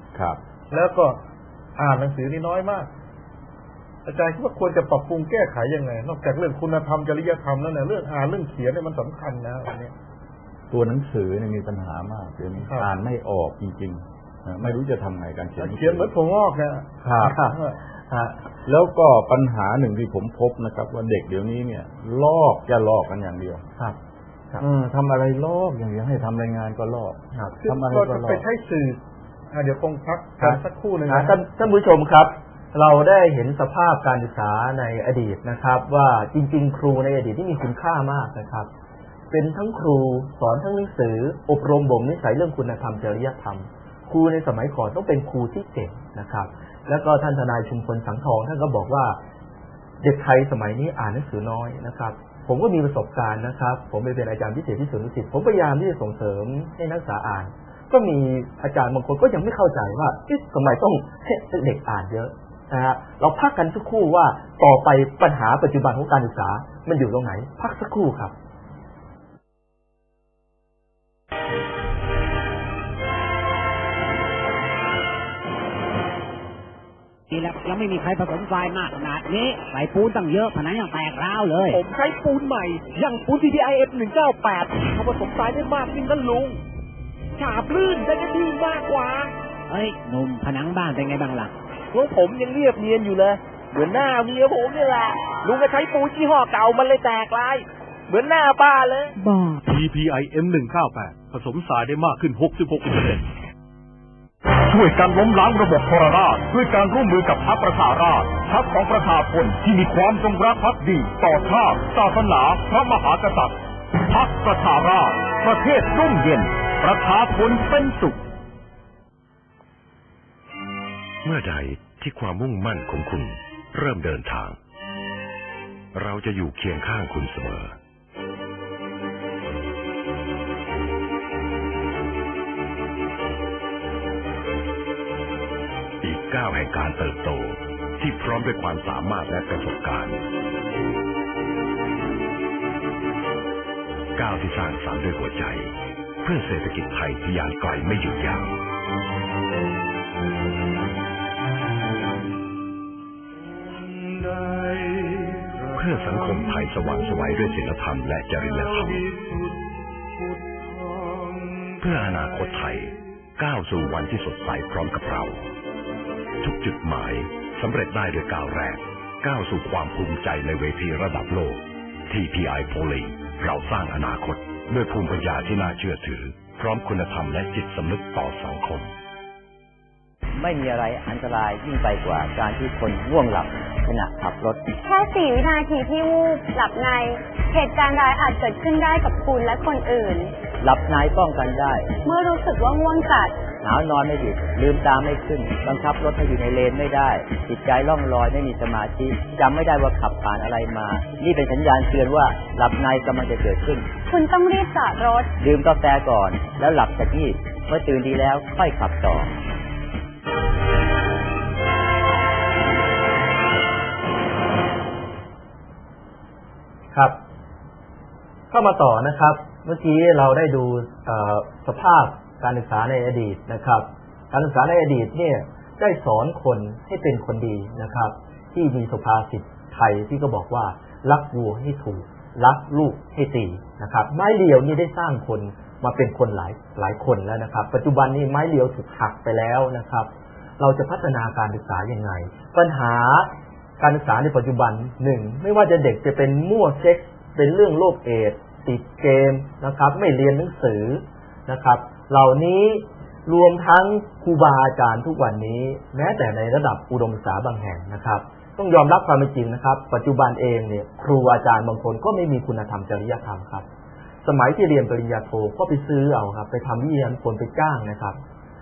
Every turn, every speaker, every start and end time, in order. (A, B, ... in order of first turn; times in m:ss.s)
0:00.1-0:00.4 A
0:00.7-0:01.2 B
0:01.8-0:02.9 B
0:04.1-0:09.9 B
0:10.7-0:16.1 A
0:12.6-0:12.9 B
0:15.6-0:17.7 B
0:17.0-0:17.4 A
0:17.2-0:18.4 C
0:18.7-0:23.6 A
0:24.6-0:28.4 A
0:27.3-0:27.6 C
0:27.6-0:29.0 B
0:29.5-0:31.4 B
0:30.4-0:38.7 C
0:39.3-0:49.2 C
0:50.0-1:08.3 C
1:17.3-1:21.8 D
1:21.8-1:26.6 E
1:27.4-1:29.3 E
1:29.7-1:31.5 D
1:31.9-1:39.1 E
1:39.2-1:39.6 D
1:39.7-1:43.2 F
1:44.7-1:53.6 F
1:54.1-1:58.2 F
2:01.2-2:04.6 G
2:05.9-2:07.8 G
2:16.0-2:20.2 G
2:24.2-2:28.6 G
2:35.8-2:39.1 G
2:41.8-2:45.5 G
2:46.4-2:58.9 G
3:00.4-3:04.6 H
3:04.8-3:10.4 I
3:10.6-3:12.0 H
3:12.0-3:13.4 I
3:13.5-3:23.9 H
3:24.1-3:25.3 I
3:25.4-3:29.3 H
3:38.5-4:23.7 C
4:24.2-4:28.2 C